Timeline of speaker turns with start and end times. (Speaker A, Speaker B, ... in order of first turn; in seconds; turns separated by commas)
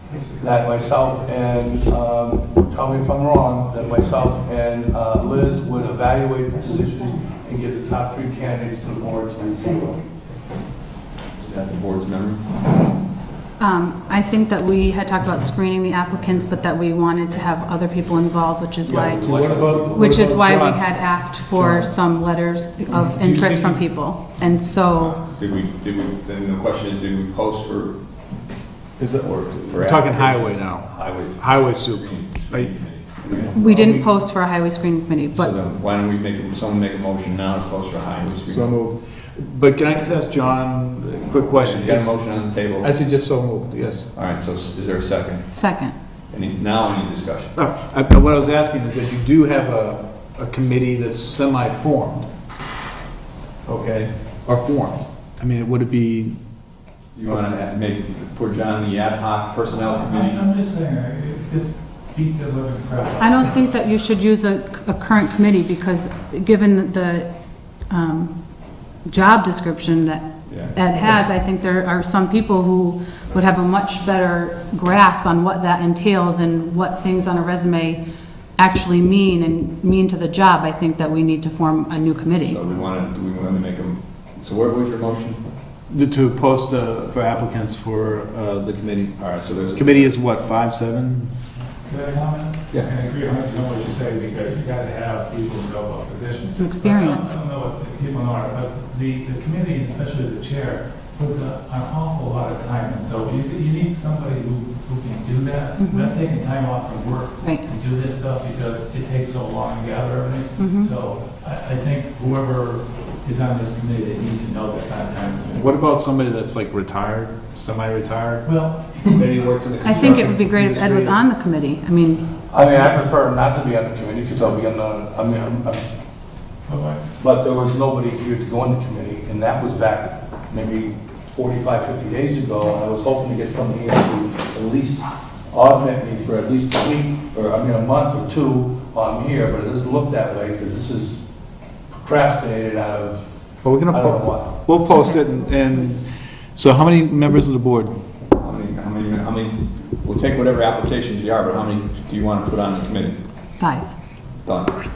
Speaker A: 0.2-10.2, Speaker B: 11.4-12.5, Speaker C: 13.6-19.2, Speaker A: 18.8-20.3, Speaker D: 19.2-21.9, Speaker C: 20.0-25.2, Speaker E: 22.9-23.9, Speaker B: 24.9-28.4, Speaker D: 29.0-34.1, Speaker B: 29.2-33.9, Speaker C: 33.5-35.5, Speaker B: 35.3-38.8, Speaker D: 38.5-44.1, Speaker B: 41.6-43.0, Speaker B: 44.1-47.5, Speaker C: 45.5-46.0, Speaker D: 47.5-52.3, Speaker D: 53.6-56.4, Speaker B: 57.1-60.4, Speaker E: 59.9-63.9, Speaker C: 63.2-78.0, Speaker B: 70.5-70.8, Speaker C: 78.6-82.6, Speaker B: 82.4-85.4, Speaker D: 85.9-91.3, Speaker B: 89.2-90.1, Speaker E: 91.8-115.8, Speaker C: 96.5-97.3, Speaker C: 105.8-106.1, Speaker C: 110.6-110.9, Speaker D: 115.5-121.2, Speaker E: 118.4-120.3, Speaker C: 119.8-122.5, Speaker A: 122.5-125.8, Speaker E: 126.7-127.0, Speaker A: 127.2-141.2, Speaker A: 142.0-144.6, Speaker D: 143.6-147.9, Speaker B: 148.4-153.2, Speaker C: 153.6-153.9, Speaker B: 154.4-154.9